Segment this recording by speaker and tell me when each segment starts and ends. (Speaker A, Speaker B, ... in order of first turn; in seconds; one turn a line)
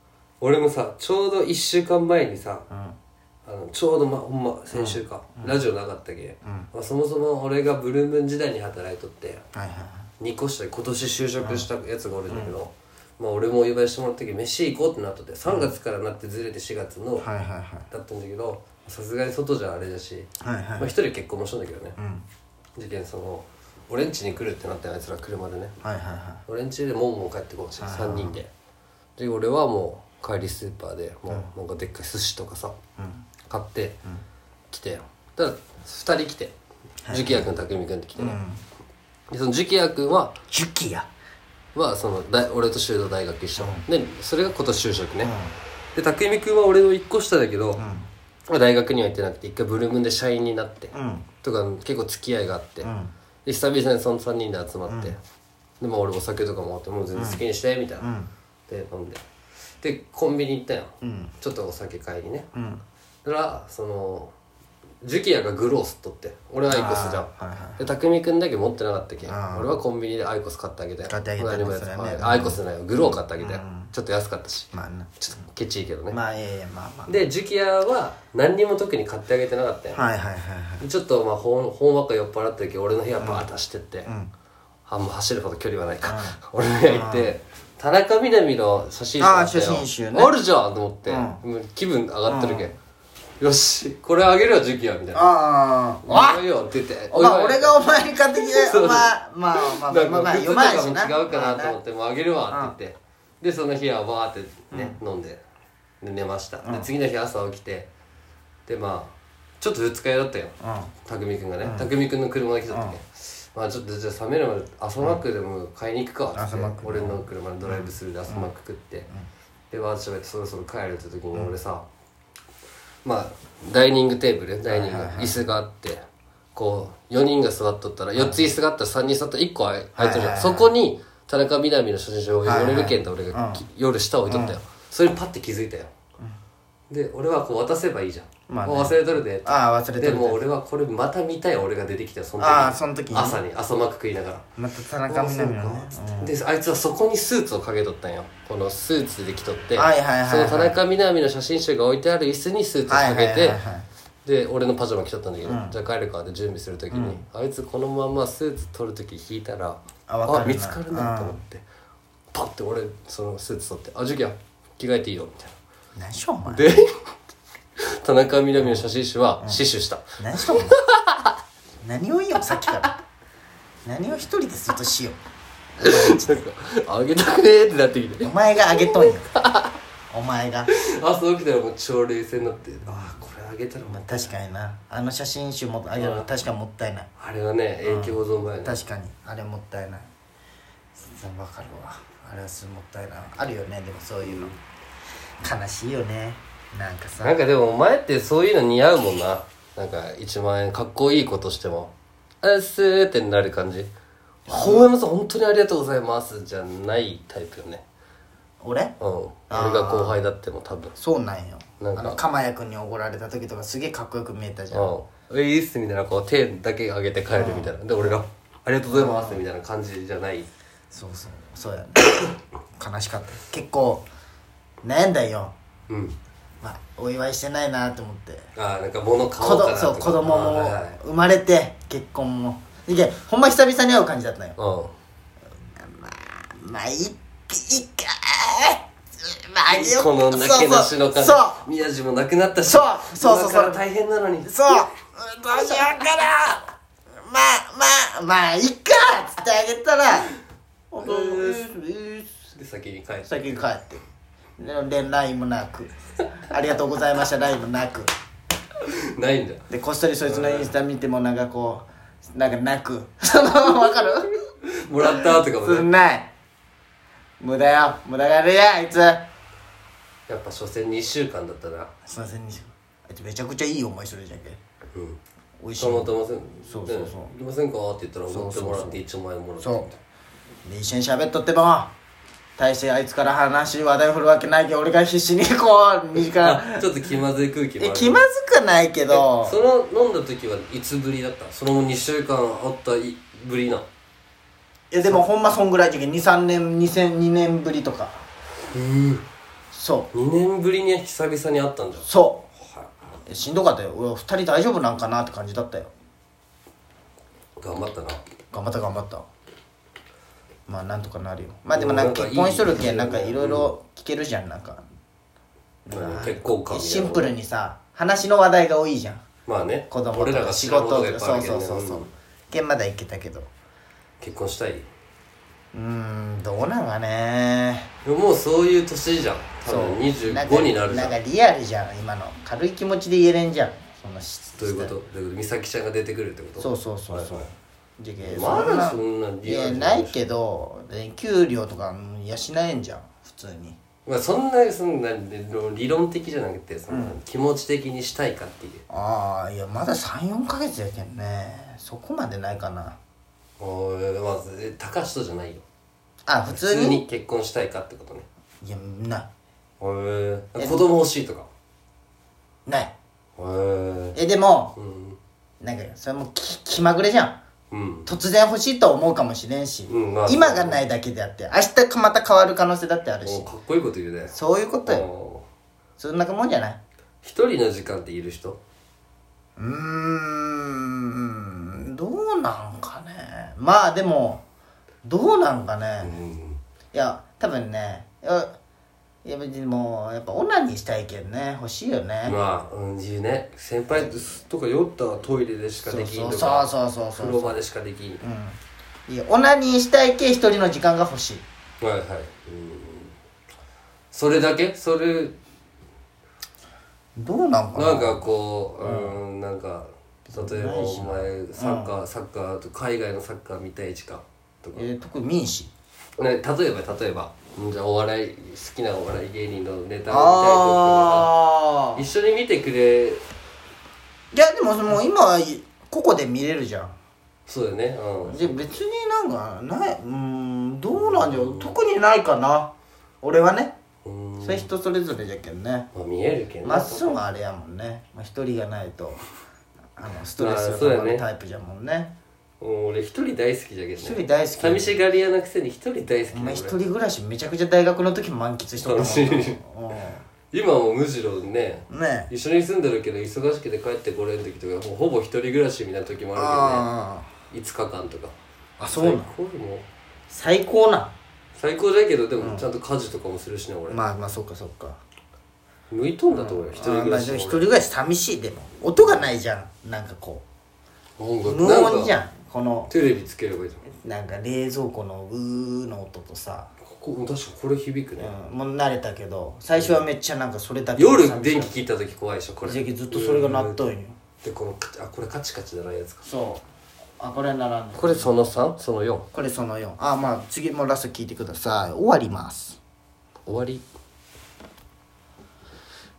Speaker A: 0.4-2.7
Speaker B: 2.7-3.0
Speaker A: 3.5-9.4
Speaker B: 4.7-5.6
Speaker B: 6.4-6.7
Speaker B: 9.5-10.1
Speaker A: 10.2-17.3
Speaker B: 11.4-11.7
Speaker B: 12.3-12.5
Speaker B: 17.2-17.9
Speaker A: 17.9-21.9
Speaker B: 20.4-20.9
Speaker B: 22.0-22.2
Speaker A: 22.8-25.7
Speaker B: 25.8-26.4
Speaker A: 26.5-28.5
Speaker B: 27.8-28.4
Speaker A: 29.2-32.8
Speaker B: 33.0-33.3
Speaker A: 33.5-34.0
Speaker A: 34.7-36.5
Speaker B: 37.0-37.5
Speaker A: 37.1-38.4
Speaker B: 38.1-38.6
Speaker A: 39.3-40.3
Speaker B: 40.5-41.1
Speaker A: 41.7-45.3
Speaker B: 43.5-43.8
Speaker B: 45.2-45.5
Speaker A: 45.9-47.8
Speaker B: 47.8-48.1
Speaker A: 48.5-52.9
Speaker B: 50.9-51.3
Speaker B: 52.8-53.1
Speaker A: 53.4-55.2
Speaker B: 54.9-55.1
Speaker A: 55.8-58.1
Speaker B: 57.1-57.4
Speaker B: 58.0-58.3
Speaker A: 58.7-59.2
Speaker A: 59.8-62.5
Speaker B: 61.0-61.3
Speaker B: 62.5-62.8
Speaker A: 63.2-64.3
Speaker A: 65.0-76.2
Speaker B: 66.7-67.8
Speaker B: 69.2-69.7
Speaker B: 71.0-73.9
Speaker B: 74.7-75.1
Speaker B: 76.1-77.2
Speaker A: 77.1-80.0
Speaker B: 79.9-80.8
Speaker A: 80.8-84.1
Speaker B: 83.2-83.5
Speaker B: 84.0-84.3
Speaker A: 84.9-92.7
Speaker B: 86.0-87.3
Speaker B: 89.2-90.3
Speaker B: 91.0-91.4
Speaker B: 92.2-92.7
Speaker A: 93.4-95.3
Speaker B: 95.1-96.4
Speaker A: 96.0-97.8
Speaker B: 97.1-101.8
Speaker A: 98.3-105.4
Speaker B: 104.7-105.0
Speaker A: 106.0-107.9
Speaker B: 106.6-106.9
Speaker A: 108.7-110.5
Speaker B: 110.6-110.9
Speaker A: 111.0-119.1
Speaker B: 111.6-111.9
Speaker B: 112.7-113.0
Speaker B: 116.3-118.5
Speaker A: 119.7-121.8
Speaker A: 123.0-126.0
Speaker B: 124.7-125.4
Speaker A: 126.5-135.9
Speaker B: 128.2-128.5
Speaker B: 129.9-130.7
Speaker B: 132.4-133.6
Speaker B: 134.3-134.6
Speaker A: 136.9-144.4
Speaker B: 138.5-140.4
Speaker B: 142.4-143.4
Speaker B: 144.6-146.3
Speaker A: 145.1-153.6
Speaker B: 149.7-150.8
Speaker B: 152.9-153.8
Speaker A: 154.2-161.6
Speaker B: 155.4-155.8
Speaker B: 156.9-157.2
Speaker B: 160.1-161.4
Speaker A: 162.3-165.5
Speaker B: 165.9-166.7
Speaker A: 166.5-167.0
Speaker A: 167.8-171.3
Speaker B: 170.2-170.8
Speaker B: 171.8-173.0
Speaker B: 173.8-175.2
Speaker B: 175.8-176.4
Speaker A: 175.8-179.7
Speaker B: 178.2-179.3
Speaker B: 180.1-180.7
Speaker A: 180.7-184.3
Speaker B: 182.9-183.1
Speaker B: 183.8-187.1
Speaker A: 185.9-186.3
Speaker A: 187.2-188.8
Speaker B: 187.8-190.1
Speaker B: 190.9-194.5
Speaker A: 194.2-194.6
Speaker B: 195.4-197.4
Speaker A: 197.2-203.9
Speaker B: 204.5-204.9
Speaker A: 204.5-207.8
Speaker B: 208.6-208.9
Speaker A: 209.0-210.9
Speaker B: 209.5-210.2
Speaker B: 211.0-214.9
Speaker A: 211.8-212.2
Speaker A: 214.7-220.5
Speaker B: 217.3-218.2
Speaker B: 218.9-219.4
Speaker B: 220.9-222.2
Speaker B: 222.8-224.1
Speaker B: 224.8-225.5
Speaker A: 225.9-226.2
Speaker B: 226.6-228.5
Speaker A: 228.6-231.0
Speaker B: 229.4-234.6
Speaker A: 234.6-234.9
Speaker B: 235.8-241.6
Speaker A: 239.7-244.9
Speaker B: 242.6-243.8
Speaker B: 244.4-246.7
Speaker A: 245.5-245.9
Speaker B: 247.2-250.3
Speaker B: 250.9-252.3
Speaker A: 251.0-251.7
Speaker A: 252.5-253.6
Speaker B: 253.2-254.0
Speaker B: 254.6-255.9
Speaker B: 256.5-258.1
Speaker A: 258.8-259.7
Speaker B: 259.7-264.4
Speaker A: 260.2-260.7
Speaker A: 264.7-265.9
Speaker B: 265.0-266.3
Speaker B: 267.4-269.2
Speaker A: 270.3-271.9
Speaker B: 272.1-274.6
Speaker A: 274.9-275.2
Speaker B: 275.6-277.3
Speaker A: 275.8-280.0
Speaker B: 278.3-279.0
Speaker B: 279.6-279.9
Speaker B: 280.6-281.9
Speaker B: 282.6-286.9
Speaker A: 286.3-288.2
Speaker B: 287.8-289.6
Speaker A: 289.1-293.9
Speaker B: 294.9-298.2
Speaker A: 298.7-299.2
Speaker B: 299.7-300.1
Speaker A: 300.1-302.1
Speaker B: 302.0-302.5
Speaker B: 303.3-305.9
Speaker A: 307.6-308.2
Speaker B: 308.5-309.3
Speaker B: 310.7-314.8
Speaker A: 311.7-313.7
Speaker B: 315.9-319.2
Speaker A: 315.9-317.3
Speaker A: 319.4-322.1
Speaker B: 319.9-323.5
Speaker A: 324.2-324.9
Speaker B: 325.7-327.9
Speaker A: 328.0-331.1
Speaker B: 329.6-334.9
Speaker A: 334.6-337.5
Speaker B: 336.6-343.8
Speaker A: 338.2-340.2
Speaker A: 344.1-348.8
Speaker B: 346.9-347.1
Speaker B: 348.9-353.0
Speaker A: 353.6-355.6
Speaker B: 356.3-357.0
Speaker A: 356.5-358.2
Speaker B: 358.6-359.3
Speaker A: 359.8-361.5
Speaker B: 360.6-360.9
Speaker B: 362.6-362.9
Speaker A: 363.4-364.2
Speaker B: 364.1-364.7
Speaker A: 364.8-365.2
Speaker B: 365.6-367.4
Speaker A: 367.7-368.1
Speaker B: 368.1-373.5
Speaker A: 369.9-370.8
Speaker A: 373.2-375.4
Speaker B: 374.3-375.1
Speaker B: 376.0-376.8
Speaker A: 377.2-378.6
Speaker B: 379.6-384.4
Speaker B: 385.0-386.1
Speaker A: 386.0-386.6
Speaker B: 386.9-388.6
Speaker B: 389.2-392.4
Speaker A: 392.2-398.2
Speaker B: 395.8-397.6
Speaker B: 398.2-401.4
Speaker A: 401.8-403.1
Speaker A: 404.1-405.4
Speaker B: 407.1-408.2
Speaker A: 407.7-414.9
Speaker B: 408.8-409.2
Speaker B: 410.3-411.9
Speaker B: 414.7-415.7
Speaker A: 416.2-421.4
Speaker B: 420.1-422.0
Speaker A: 421.9-423.2
Speaker B: 424.3-426.9
Speaker A: 427.5-428.6
Speaker B: 428.2-433.8
Speaker A: 430.9-431.8
Speaker A: 434.0-434.7
Speaker B: 434.4-435.9
Speaker A: 435.9-437.2
Speaker B: 436.6-439.2
Speaker B: 440.0-442.1
Speaker A: 440.4-441.2
Speaker A: 442.6-446.8
Speaker B: 444.0-445.0
Speaker B: 446.3-450.2
Speaker A: 448.8-449.6
Speaker A: 450.5-456.9
Speaker B: 451.9-452.3
Speaker B: 456.3-457.3
Speaker A: 457.5-458.3
Speaker B: 458.8-459.3
Speaker A: 458.9-459.9
Speaker B: 460.3-461.1
Speaker A: 461.6-464.0
Speaker B: 462.4-462.7
Speaker B: 463.9-465.0
Speaker A: 465.9-467.7
Speaker B: 466.3-470.4
Speaker A: 469.0-469.3
Speaker A: 471.2-472.1
Speaker B: 471.4-472.9
Speaker A: 472.9-473.8
Speaker B: 473.9-476.7
Speaker A: 476.9-478.3
Speaker B: 478.2-481.8
Speaker A: 479.7-480.0
Speaker A: 481.0-483.8
Speaker B: 482.6-484.1
Speaker A: 484.4-486.2
Speaker B: 486.2-486.6
Speaker B: 487.2-488.3
Speaker A: 487.9-489.3
Speaker B: 489.3-492.8
Speaker A: 493.4-493.8